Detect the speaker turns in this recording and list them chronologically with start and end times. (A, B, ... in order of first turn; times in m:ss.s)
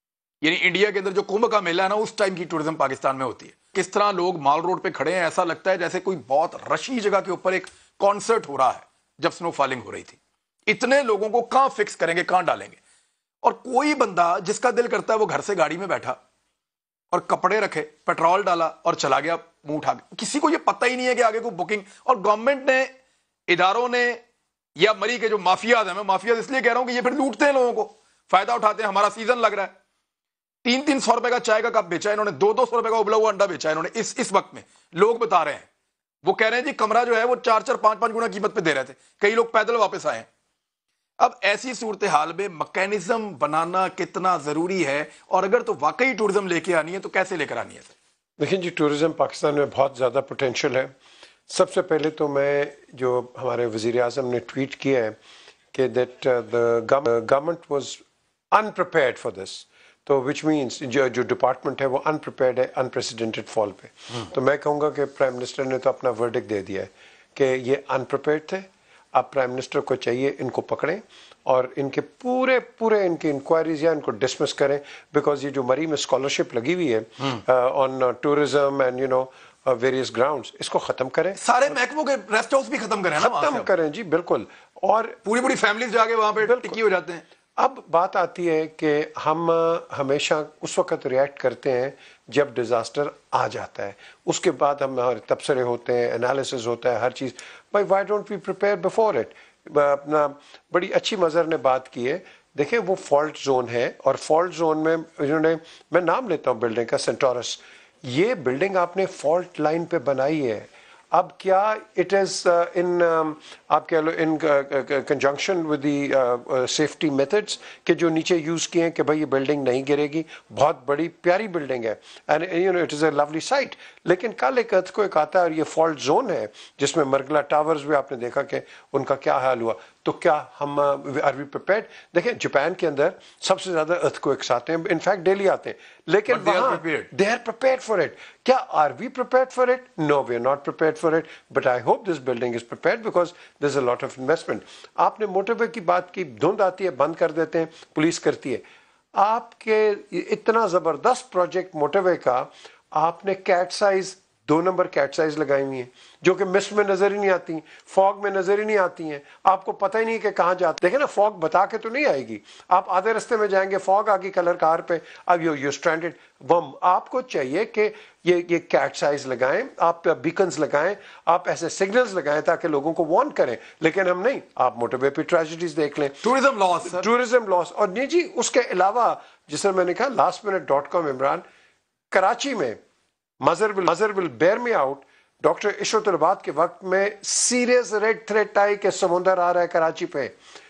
0:00.4-0:12.8 A
0:13.4-0:16.2 A
0:17.1-0:22.9 A
0:23.5-0:24.2 A
0:24.8-0:29.7 A
0:30.6-0:35.7 A
0:36.2-0:40.3 A
0:41.2-0:47.9 A
0:48.4-0:50.9 B
0:51.5-0:55.2 B
0:55.7-1:21.4 B
1:21.4-1:23.7 A
1:23.2-1:25.2 B
1:25.2-1:27.2 A
1:26.4-1:26.8 B
1:27.6-2:28.6 B
2:16.3-2:17.1 A
2:29.2-2:56.2 B
2:56.2-2:57.0 A
2:56.8-3:01.4 B
3:02.1-3:02.8 B
3:03.4-3:10.3 B